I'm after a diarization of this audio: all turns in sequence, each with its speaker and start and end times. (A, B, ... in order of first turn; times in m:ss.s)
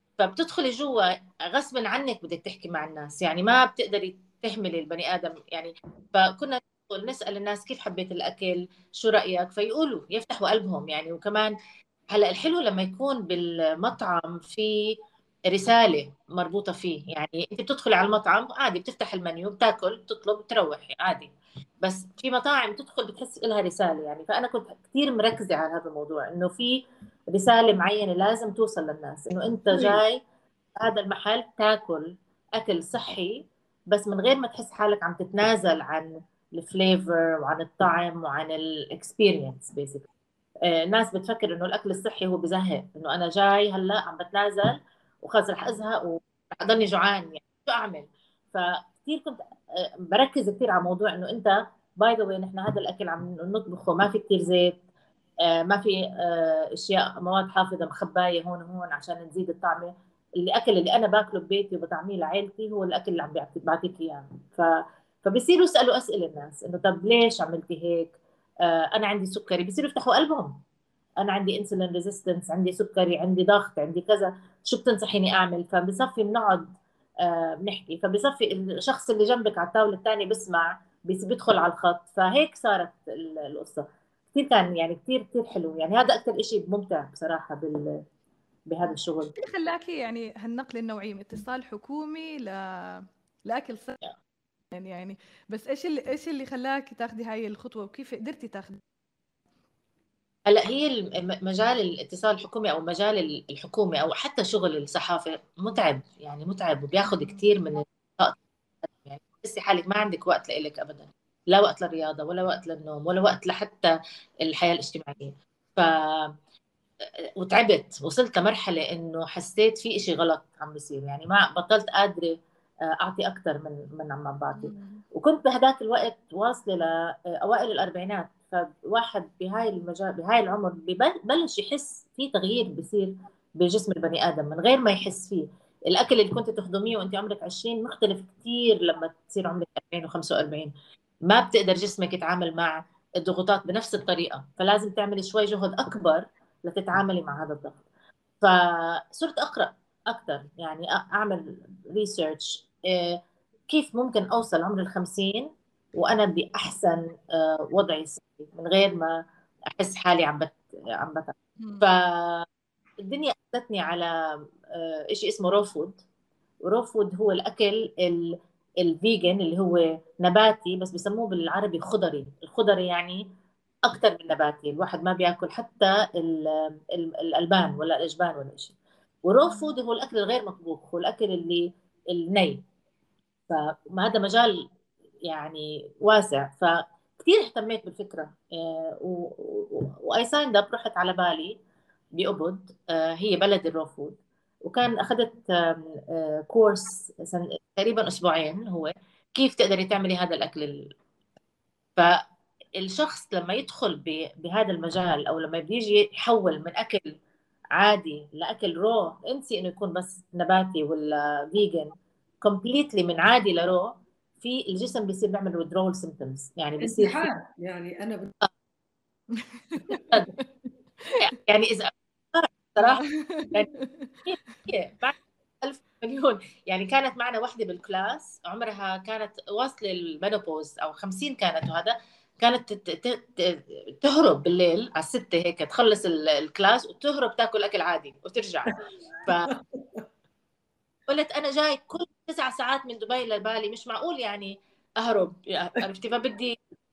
0:00.2-0:11.5 A
0:12.1-0:15.0 A
0:15.5-0:30.2 A
0:29.7-0:30.0 B
0:30.8-0:40.1 A
0:40.6-0:54.8 A
0:55.4-1:10.6 A
1:11.2-1:27.9 A
1:28.7-1:29.3 A
1:29.4-1:34.0 C
1:34.7-1:38.8 C
1:40.5-1:53.9 A
1:47.0-1:47.4 C
1:54.4-1:56.3 A
1:57.4-2:02.3 A
2:02.9-2:20.7 A
2:04.6-2:05.0 C
2:21.3-2:27.8 A
2:28.4-2:42.5 A
2:43.0-2:44.1 A
2:44.7-2:46.0 A
2:46.6-2:53.2 A
2:53.9-3:02.6 A
2:59.5-2:59.7 C
3:03.5-3:04.6 A
3:05.3-3:11.6 A
3:12.2-3:20.9 A
3:22.8-3:27.2 A
3:27.7-3:37.3 A
3:36.8-3:38.3 B
3:39.3-3:40.4 C
3:40.0-3:40.3 A
3:41.2-3:43.7 A
3:42.8-3:44.1 C
3:44.3-3:58.7 A
3:59.5-4:00.0 B
4:01.1-4:06.6 A